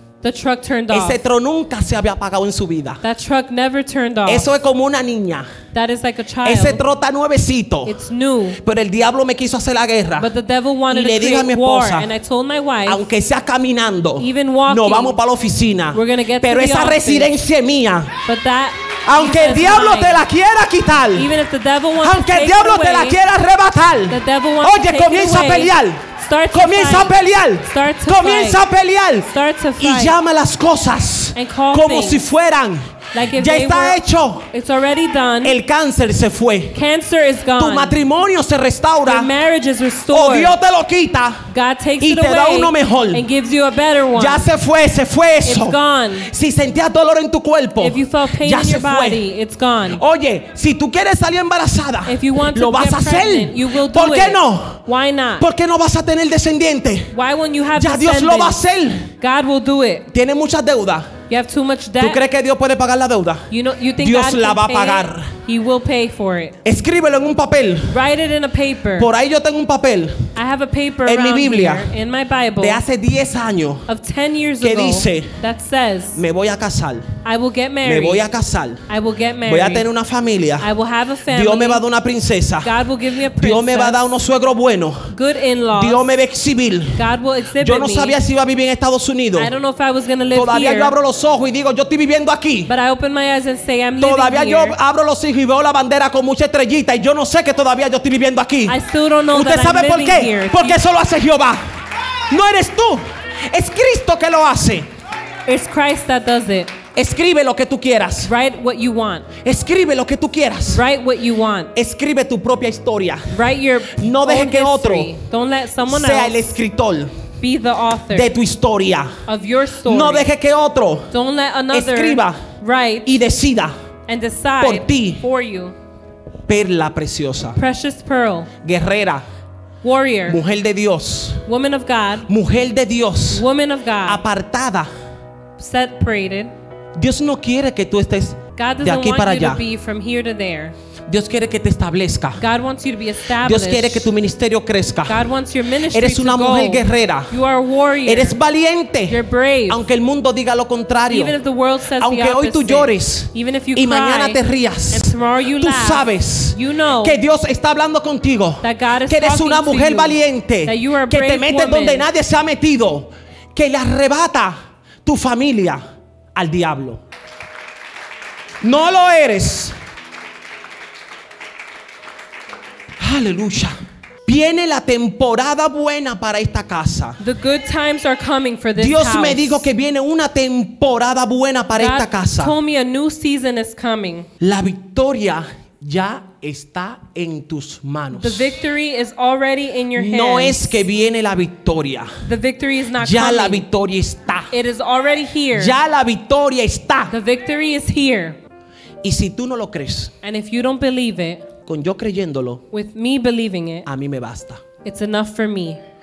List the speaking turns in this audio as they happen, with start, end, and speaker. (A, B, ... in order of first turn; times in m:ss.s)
0:00.2-0:01.2 A
0:00.9-0:03.0 B
0:03.0-0:04.5 A
0:04.3-0:05.5 B
0:05.7-0:06.8 A
0:06.4-0:08.0 B
0:07.8-0:08.6 A
0:08.6-0:10.3 B
0:10.2-0:13.0 A
0:10.9-0:12.1 B
0:12.8-0:18.2 B
0:14.2-0:15.2 A
0:15.9-0:17.3 A
0:18.2-0:20.2 A
0:19.0-0:21.3 B
0:21.1-0:23.2 A
0:22.0-0:34.5 B
0:24.1-0:28.6 A
0:29.3-0:30.2 A
0:31.3-0:32.2 A
0:33.1-0:35.6 A
0:35.4-0:36.8 B
0:36.7-0:38.0 A
0:37.6-0:39.3 B
0:39.0-0:40.6 A
0:40.1-0:41.5 B
0:41.5-0:44.5 A
0:42.0-0:43.2 B
0:44.2-0:49.2 B
0:45.4-0:46.3 A
0:47.8-0:50.0 A
0:49.9-0:54.8 B
0:52.0-0:55.4 A
0:55.4-0:57.1 B
0:57.1-0:58.6 A
0:57.7-0:59.1 B
0:59.2-1:00.1 A
1:00.1-1:01.2 B
1:01.3-1:02.2 A
1:02.0-1:05.4 B
1:03.5-1:06.6 A
1:06.6-1:08.0 B
1:07.9-1:09.1 A
1:09.0-1:10.3 B
1:10.3-1:12.8 A
1:11.0-1:11.9 B
1:12.6-1:13.9 B
1:13.9-1:16.2 A
1:14.6-1:15.4 B
1:16.1-1:17.2 B
1:17.2-1:18.2 A
1:17.8-1:18.8 B
1:18.9-1:19.9 A
1:19.4-1:20.7 B
1:20.6-1:21.8 A
1:21.3-1:22.7 B
1:22.6-1:24.0 A
1:23.4-1:25.1 B
1:25.1-1:26.1 A
1:25.7-1:27.1 B
1:27.0-1:28.2 A
1:27.6-1:29.5 B
1:29.4-1:30.9 A
1:30.3-1:32.7 B
1:32.7-1:34.8 A
1:34.0-1:38.8 B
1:38.6-1:40.8 A
1:39.3-1:41.6 B
1:42.3-1:44.9 B
1:45.4-1:46.7 A
1:46.9-1:48.3 B
1:48.2-1:49.3 A
1:49.4-1:50.8 B
1:50.7-1:51.7 A
1:51.7-1:53.4 B
1:53.3-1:56.6 A
1:53.9-1:55.2 B
1:55.9-1:57.1 B
1:57.4-1:58.3 A
1:58.1-1:59.2 B
1:59.3-2:00.3 A
1:59.8-2:01.1 B
2:01.1-2:03.2 A
2:01.7-2:02.5 B
2:03.0-2:03.7 B
2:04.1-2:05.8 A
2:04.6-2:05.2 B
2:06.5-2:07.6 B
2:07.6-2:08.5 A
2:08.6-2:09.2 B
2:09.8-2:10.4 A
2:10.3-2:11.4 B
2:11.4-2:12.3 A
2:12.3-2:13.4 B
2:13.3-2:14.2 A
2:14.0-2:14.9 B
2:15.6-2:16.5 A
2:17.0-2:19.6 B
2:18.6-2:20.7 A
2:21.1-2:22.4 B
2:22.4-2:24.1 A
2:23.4-2:25.2 B
2:25.1-2:28.4 A
2:25.9-2:27.4 B
2:28.0-2:31.4 B
2:29.1-2:29.8 A
2:31.1-2:34.4 A
2:31.9-2:45.8 B
2:34.9-2:37.2 A
2:38.6-2:42.1 A
2:46.3-2:47.0 B
2:48.6-2:49.7 B
2:53.0-2:53.7 B
2:54.3-2:57.2 B
2:57.2-2:59.7 A
2:58.8-3:02.5 B
3:01.7-3:04.3 A
3:04.4-3:08.5 B
3:08.1-3:10.8 A
3:10.0-3:12.2 B
3:12.2-3:13.6 A
3:13.0-3:14.5 B
3:14.5-3:15.8 A
3:15.5-3:17.1 B
3:17.1-3:18.4 A
3:19.0-3:20.1 B
3:20.2-3:21.4 A
3:21.6-3:22.6 B
3:22.7-3:23.9 A
3:23.8-3:24.6 B
3:24.8-3:25.8 A